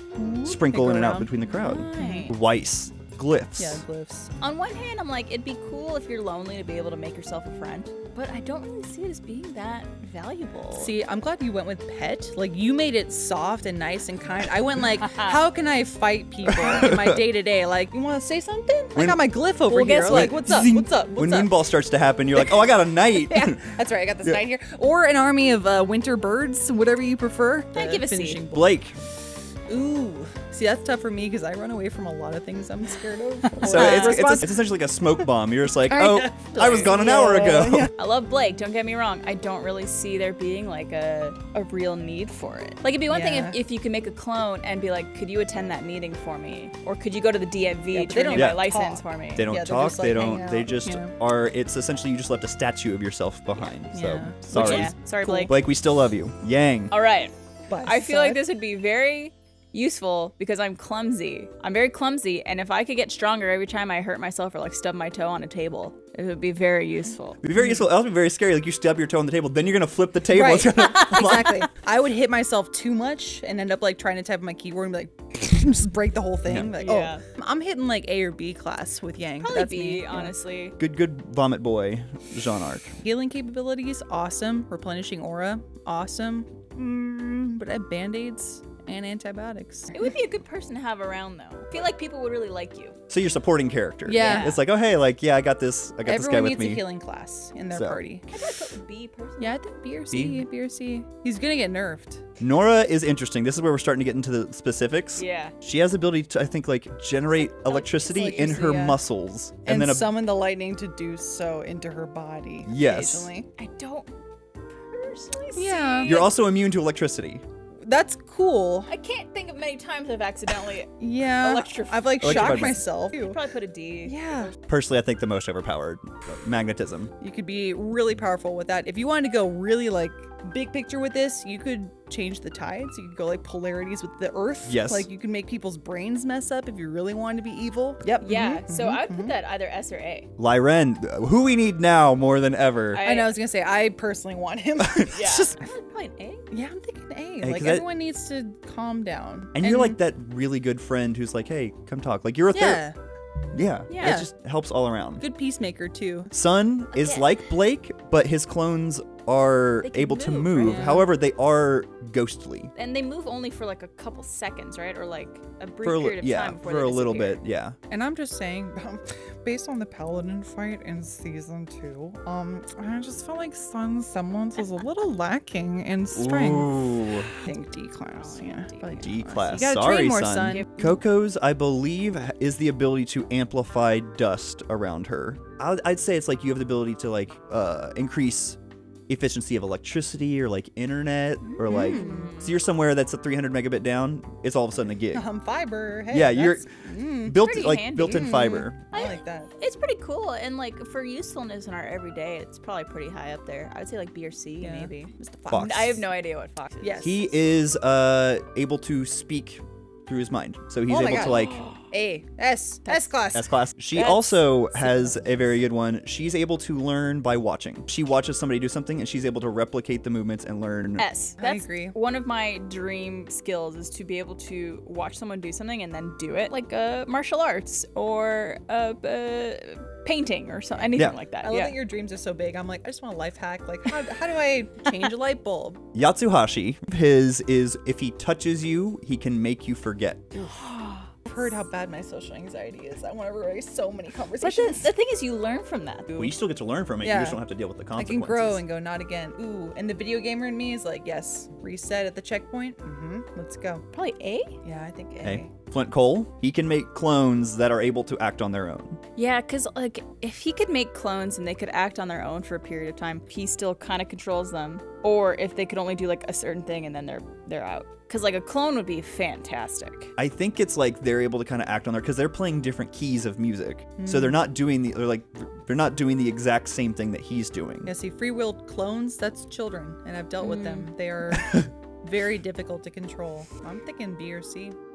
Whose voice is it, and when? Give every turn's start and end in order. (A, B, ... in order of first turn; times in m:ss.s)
0:00.2-0:01.3 A
0:00.4-0:03.8 B
0:01.5-0:02.3 C
0:02.0-0:02.3 A
0:03.6-0:04.3 A
0:04.4-0:10.9 C
0:10.7-0:21.5 A
0:14.9-0:15.4 C
0:16.5-0:17.2 B
0:19.7-0:20.5 C
0:20.1-0:24.4 B
0:23.3-0:28.8 A
0:27.7-0:28.4 C
0:28.5-0:29.0 B
0:29.7-0:34.6 A
0:33.4-0:34.4 C
0:33.6-0:37.9 B
0:35.8-0:37.9 A
0:36.8-0:37.4 C
0:38.0-0:49.5 C
0:43.1-0:43.6 A
0:47.9-0:51.1 A
0:48.3-0:48.7 B
0:49.4-0:54.9 B
0:53.9-0:55.5 A
0:54.5-0:55.5 C
0:55.5-0:56.9 B
0:56.9-1:07.4 C
0:57.7-0:58.4 A
1:07.4-1:11.6 B
1:07.5-1:07.8 A
1:10.3-1:20.3 A
1:10.8-1:11.4 C
1:16.4-1:16.7 B
1:16.8-1:17.2 C
1:19.4-1:20.7 C
1:20.8-1:23.0 B
1:23.0-1:30.1 A
1:29.9-1:33.0 C
1:33.1-1:36.8 B
1:34.0-1:34.6 A
1:34.2-1:34.6 C
1:36.0-1:38.3 A
1:37.7-1:38.0 B
1:38.3-1:39.6 C
1:39.4-1:42.2 A
1:40.1-1:40.4 B
1:42.4-1:50.1 B
1:45.2-1:45.5 C
1:47.4-1:48.7 C
1:48.0-1:49.0 A
1:49.6-1:53.5 A
1:52.6-1:53.3 B
1:53.6-1:54.1 C
1:54.7-1:56.3 C
1:55.6-1:56.1 A
1:56.0-1:57.4 B
1:57.8-1:58.9 A
1:58.9-2:04.5 C
2:01.0-2:03.4 A
2:02.2-2:02.8 B
2:04.0-2:04.5 A
2:04.7-2:07.1 B
2:07.2-2:19.3 A
2:14.6-2:15.1 B
2:18.2-2:20.3 C
2:20.4-2:23.0 B
2:22.9-2:23.4 C
2:23.0-2:25.7 A
2:24.8-2:25.1 B
2:25.1-2:26.5 C
2:26.5-2:30.0 A
2:27.4-2:27.8 B
2:29.5-2:32.8 B
2:32.5-2:32.9 A
2:33.5-2:35.2 B
2:33.9-2:34.2 C
2:34.0-2:34.3 A
2:35.2-2:36.3 A
2:36.3-2:42.7 B
2:36.9-2:37.3 C
2:39.8-2:40.8 C
2:40.6-2:41.1 A
2:42.7-2:47.4 C
2:45.8-2:47.8 B
2:47.9-3:00.7 A
2:56.1-2:57.3 B
2:58.1-2:59.1 C
2:59.0-3:15.2 B
3:00.5-3:01.0 C
3:11.4-3:12.6 C
3:11.6-3:12.3 A
3:15.1-3:17.4 A
3:16.1-3:18.8 B
3:17.3-3:26.9 C
3:18.1-3:19.5 A
3:24.6-3:25.9 A
3:25.5-3:26.0 B
3:26.8-3:27.2 A
3:27.0-3:31.6 B
3:30.9-3:35.6 A
3:31.1-3:31.9 C
3:32.8-3:33.1 C
3:33.3-3:41.1 B
3:34.0-3:34.3 C
3:41.0-3:51.8 C
3:41.4-3:42.0 A
3:51.4-3:55.8 A
3:55.9-4:00.3 B
4:00.5-4:01.6 C
4:01.3-4:04.9 A
4:04.4-4:06.4 C
4:06.1-4:08.6 B
4:07.0-4:07.4 A
4:07.9-4:13.8 A
4:13.9-4:14.6 C
4:14.6-4:15.5 A
4:15.2-4:19.0 B
4:19.2-4:30.1 C
4:30.2-4:37.9 B
4:34.0-4:34.4 A
4:37.8-4:44.8 A
4:40.4-4:40.9 C
4:41.3-4:41.7 B